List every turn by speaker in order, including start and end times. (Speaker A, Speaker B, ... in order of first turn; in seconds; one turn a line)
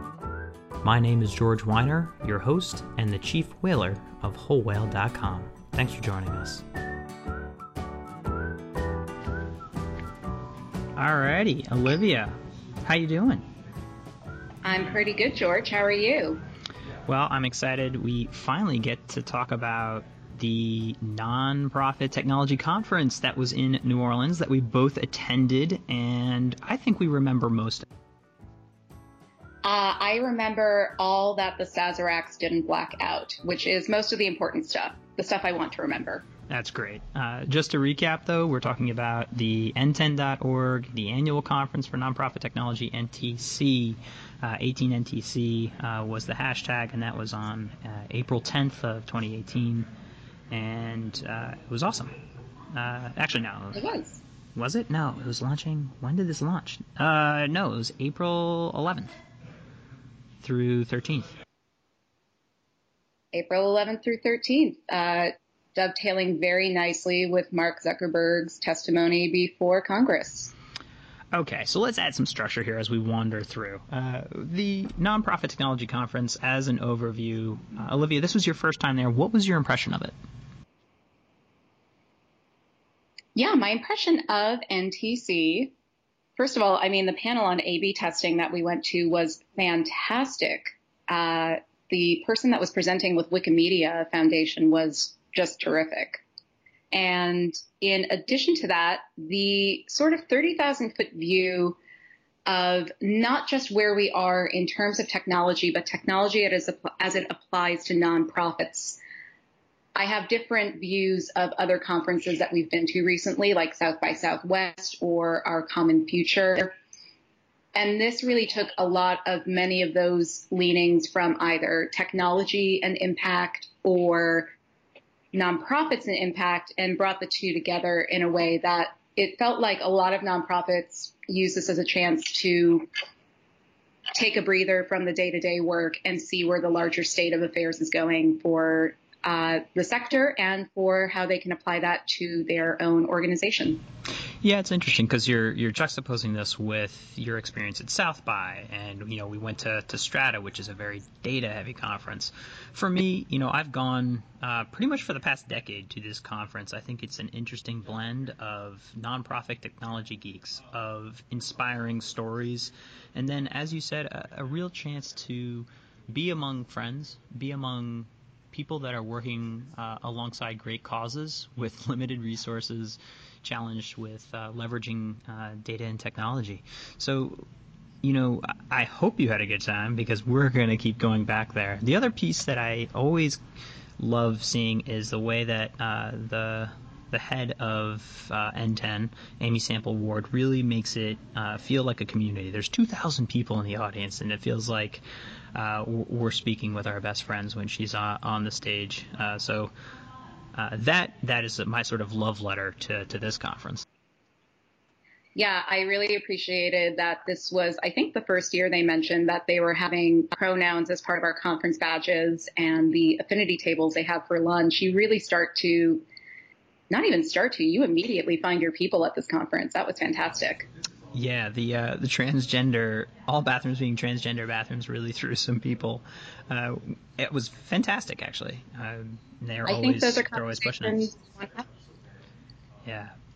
Speaker A: 0.8-6.6
Speaker A: 10.9-13.4
Speaker B: 14.6-16.4
Speaker A: 17.1-27.9
Speaker B: 29.6-36.2
Speaker A: 36.5-49.9
Speaker A: 50.5-52.1
Speaker A: 52.7-53.9
Speaker B: 53.8-54.2
Speaker A: 54.5-59.1
Speaker A: 60.4-61.3
Speaker B: 63.3-70.5
Speaker A: 71.3-80.1
Speaker B: 83.3-85.7
Speaker B: 86.4-96.2
Speaker B: 96.9-101.8
Speaker B: 102.5-109.0
Speaker B: 109.9-116.8
Speaker B: 117.7-124.5
Speaker B: 125.3-132.9
Speaker B: 134.1-143.8
Speaker A: 144.4-177.5
Speaker A: 178.0-183.4
Speaker A: 184.0-195.0
Speaker A: 195.5-199.7
Speaker A: 200.5-203.8
Speaker B: 205.3-216.0
Speaker B: 216.9-220.7
Speaker A: 221.1-231.1
Speaker B: 229.6-231.6
Speaker A: 232.8-233.2